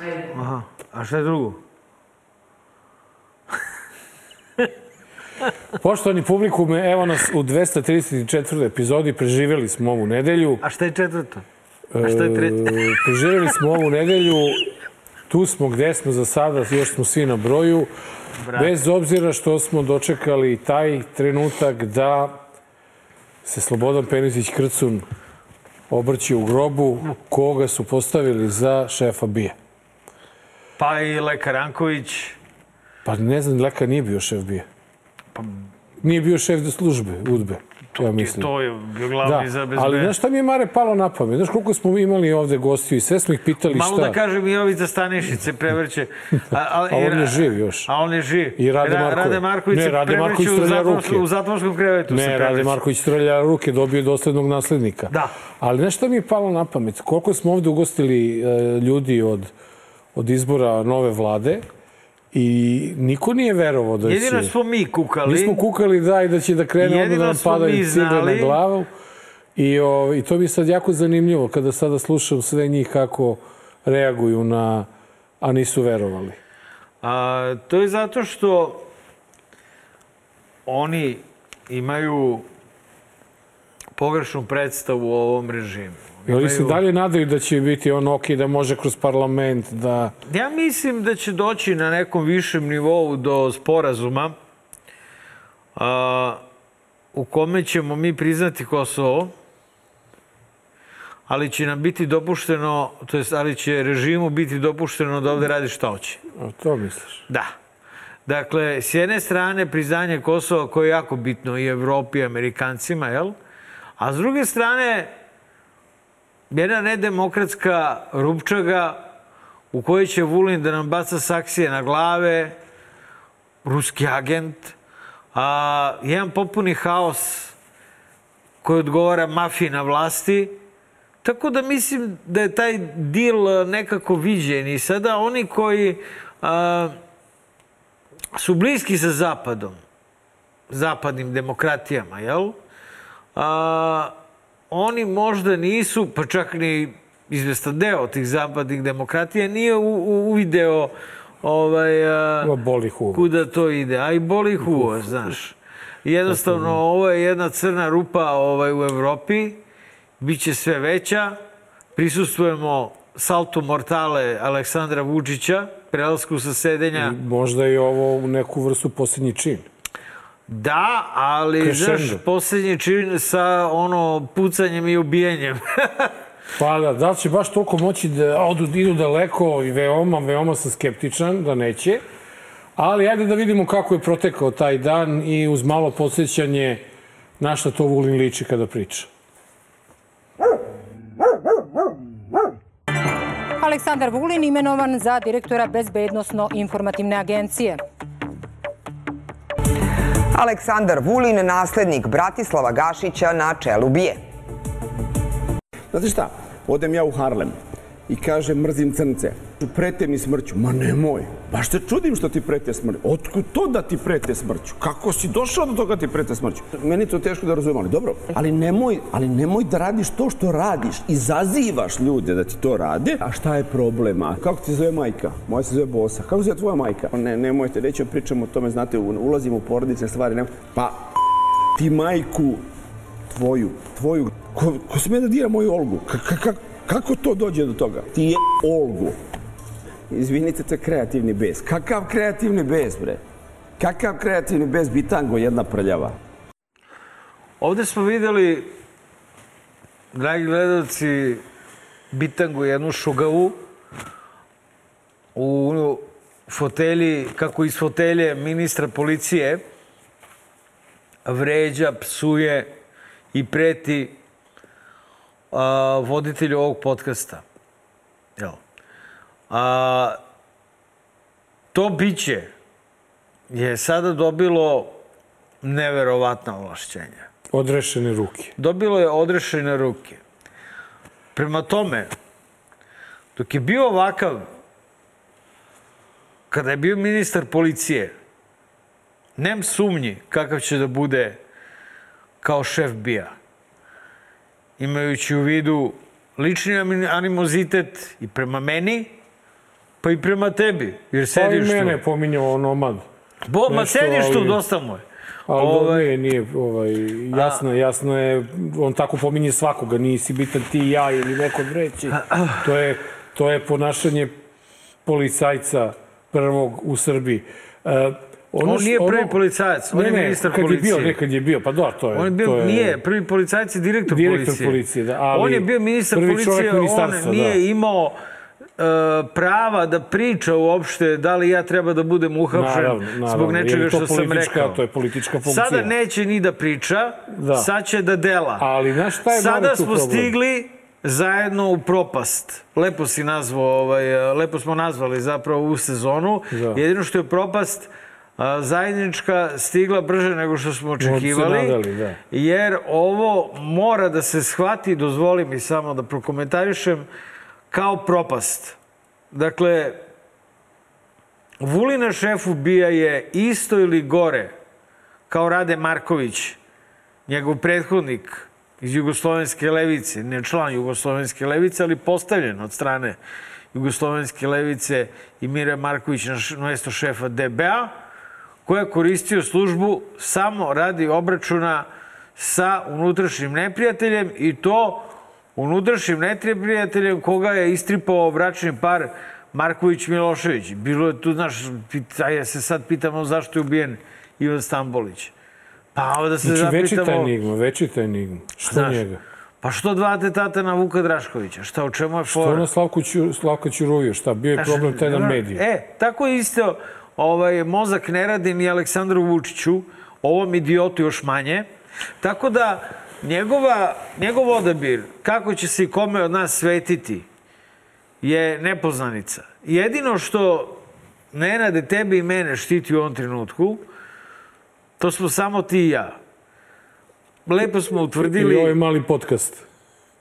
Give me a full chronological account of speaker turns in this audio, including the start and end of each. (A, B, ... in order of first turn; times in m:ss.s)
0:00.3-0:01.6 A
0:05.8-0:10.6 B
0:10.6-0:11.4 A
0:11.9-0:14.7 B
0:12.0-0:13.5 A
0:15.3-0:17.9 B
0:18.4-0:18.7 A
0:18.5-0:22.4 B
0:23.4-0:25.0 B
0:25.9-0:29.6 B
0:30.8-0:32.4 A
0:33.0-0:34.6 B
0:36.0-0:38.5 B
0:37.9-0:40.1 A
0:39.2-0:44.2 B
0:43.7-0:52.8 A
0:46.5-0:47.9 B
0:48.6-0:51.2 B
0:52.1-0:59.5 B
1:00.1-1:01.6 B
1:02.3-1:04.5 B
1:04.0-1:05.6 A
1:05.2-1:08.9 B
1:06.8-1:08.6 A
1:09.6-1:14.9 B
1:15.4-1:16.4 B
1:17.0-1:18.9 A
1:20.6-1:22.4 A
1:24.0-1:26.8 A
1:26.3-1:30.1 B
1:30.3-1:34.4 A
1:35.8-1:36.4 A
1:37.1-1:39.3 A
1:41.3-1:46.2 A
1:46.4-1:47.2 B
1:48.2-1:53.4 A
1:54.0-1:55.1 A
1:56.5-1:59.0 A
1:59.7-2:02.6 A
2:03.6-2:04.7 A
2:05.3-2:07.5 A
2:08.6-2:10.6 A
2:11.2-2:17.0 A
2:18.3-2:19.8 A
2:20.7-2:22.6 A
2:23.3-2:24.1 A
2:24.7-2:32.5 A
2:32.4-2:33.3 B
2:33.1-2:39.6 A
2:34.6-2:35.3 B
2:36.3-2:36.8 B
2:40.2-2:41.4 A
2:41.9-2:47.2 A
2:46.9-2:49.7 B
2:50.5-2:56.1 A
2:51.6-2:52.2 B
2:56.6-3:02.0 B
3:02.8-3:06.8 B
3:07.4-3:09.1 B
3:13.6-3:17.8 C
3:20.3-3:24.2 D
3:25.9-3:27.6 E
3:28.1-3:51.0 E
3:51.7-3:52.6 E
3:53.3-3:59.2 E
4:00.1-4:03.2 E
4:03.8-4:06.2 E
4:07.6-4:08.8 A
4:10.1-4:11.4 A
4:12.1-4:13.6 A
4:15.3-4:19.6 A
4:21.2-4:22.7 A
4:23.3-4:24.2 A
4:25.5-4:27.4 A
4:29.5-4:30.2 A
4:31.7-4:32.5 A
4:33.5-4:35.0 A
4:35.6-4:37.3 A
4:37.5-4:38.5 B
4:38.6-4:40.2 A
4:41.3-4:42.1 A
4:43.4-4:44.5 A
4:46.5-4:48.1 A
4:49.4-4:51.4 A
4:52.4-4:53.3 A
4:54.8-4:59.1 A
5:00.0-5:02.0 A
5:01.3-5:03.0 B
5:03.5-5:06.1 A
5:03.7-5:04.6 B
5:05.5-5:14.3 B
5:07.3-5:07.6 A
5:12.2-5:12.6 A
5:15.0-5:19.4 B
5:18.6-5:21.2 A
5:19.9-5:23.0 B
5:22.1-5:24.8 A
5:24.1-5:27.6 B
5:25.3-5:28.2 A
5:28.8-5:34.8 A
5:32.5-5:35.9 B
5:35.4-5:38.7 A
5:37.3-5:37.7 B
5:38.6-5:40.3 B
5:39.3-5:51.8 A
5:46.5-5:46.8 B
5:51.0-5:52.2 B
5:52.3-5:57.0 A
5:57.7-5:58.8 A
5:59.3-6:00.0 A
6:01.6-6:04.5 A
6:05.3-6:06.6 A
6:07.3-6:13.2 A
6:13.7-6:17.9 A
6:18.6-6:35.3 A
6:35.9-6:37.3 A
6:36.4-6:39.2 B
6:38.6-6:39.0 A
6:39.6-6:42.7 A
6:42.3-6:45.6 B
6:44.6-6:51.7 A
6:52.2-6:57.2 A
6:58.2-7:00.8 A
7:01.3-7:03.8 A
7:05.0-7:06.2 A
7:07.4-7:08.8 A
7:08.2-7:09.6 B